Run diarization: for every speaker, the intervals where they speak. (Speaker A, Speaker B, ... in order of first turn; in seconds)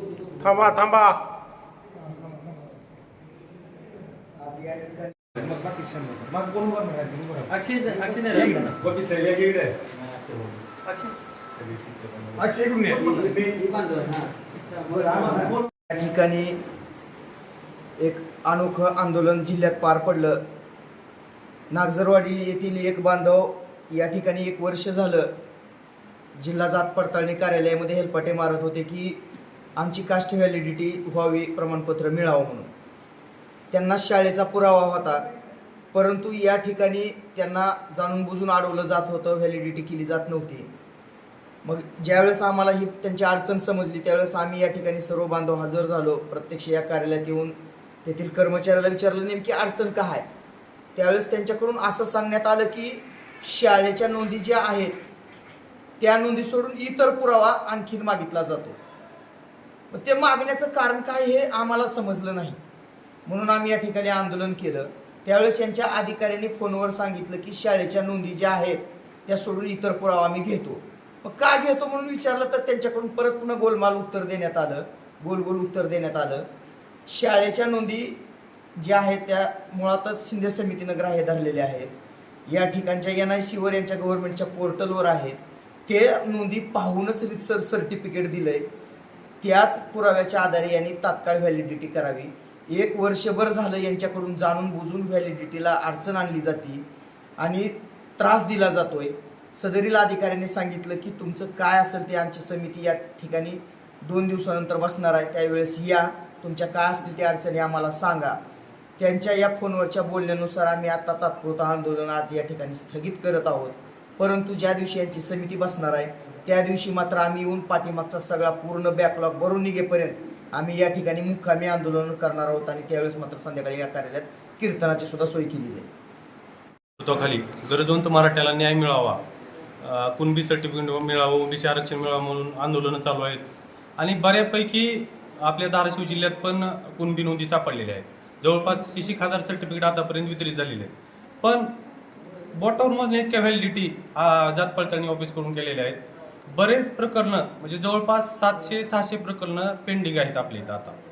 Speaker A: 0.5-0.8, 5.4-7.4, 8.0-9.8, 12.3-14.0
Speaker B: 4.5-4.9, 15.1-16.6, 18.0-20.4, 21.7-25.3, 26.4-29.2, 29.8-32.7, 33.7-35.2, 35.9-40.7, 41.6-50.2, 51.0-55.0, 56.0-58.8, 59.9-62.6, 63.2-76.5, 77.1-78.2, 78.8-81.9, 82.5-88.6, 89.4-96.8, 97.4-108.4, 109.0-125.9
Speaker C: 7.5-8.7, 10.9-12.5, 127.0-129.2, 129.8-133.4, 134.0-141.7, 142.6-151.0